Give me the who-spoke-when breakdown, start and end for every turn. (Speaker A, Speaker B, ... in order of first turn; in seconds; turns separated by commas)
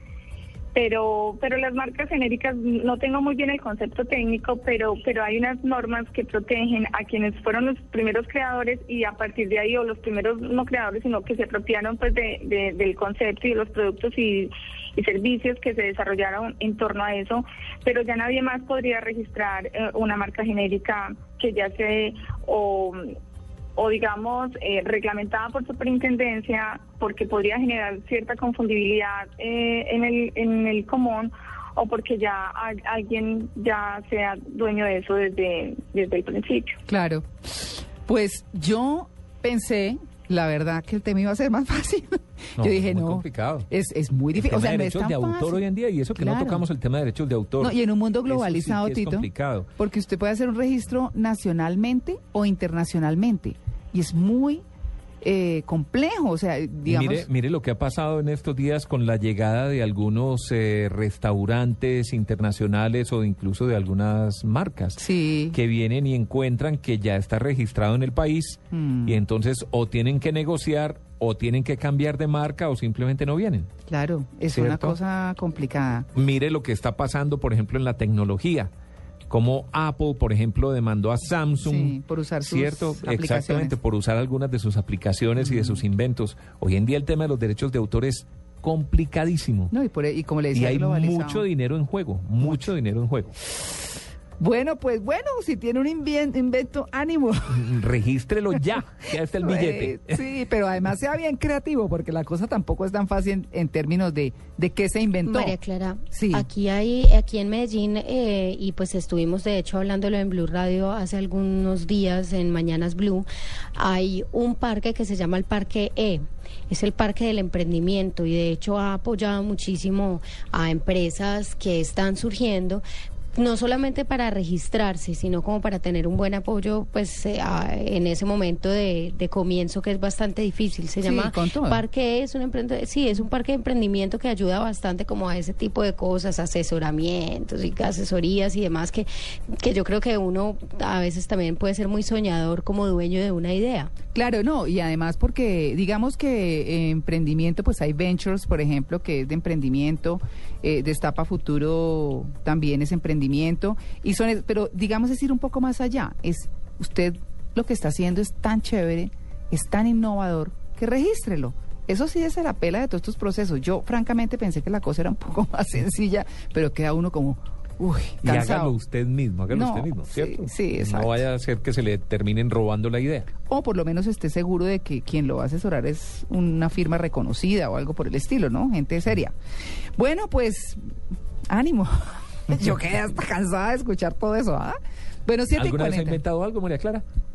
Speaker A: 0.7-23.2, Speaker A: 23.8-36.8, Speaker B: 36.9-45.6, Speaker C: 42.6-43.7, Speaker C: 44.3-49.7, Speaker B: 46.1-46.6, Speaker B: 47.6-54.6, Speaker B: 55.2-57.3, Speaker C: 56.9-73.7, Speaker B: 65.0-65.6, Speaker B: 68.7-69.2, Speaker B: 73.9-76.1, Speaker C: 74.5-75.0, Speaker C: 76.2-78.7, Speaker C: 79.3-89.7, Speaker B: 81.6-83.8, Speaker B: 85.4-85.8, Speaker B: 89.7-91.5, Speaker C: 90.5-93.3, Speaker B: 92.4-92.7, Speaker B: 94.4-97.8, Speaker C: 97.5-100.2, Speaker B: 99.3-105.6, Speaker D: 105.3-143.9, Speaker B: 106.1-106.5, Speaker B: 131.0-131.8, Speaker B: 144.1-168.8, Speaker C: 168.2-173.3, Speaker B: 169.5-171.2, Speaker B: 173.5-179.3, Speaker B: 180.0-180.8, Speaker B: 181.5-186.2, Speaker C: 185.5-187.0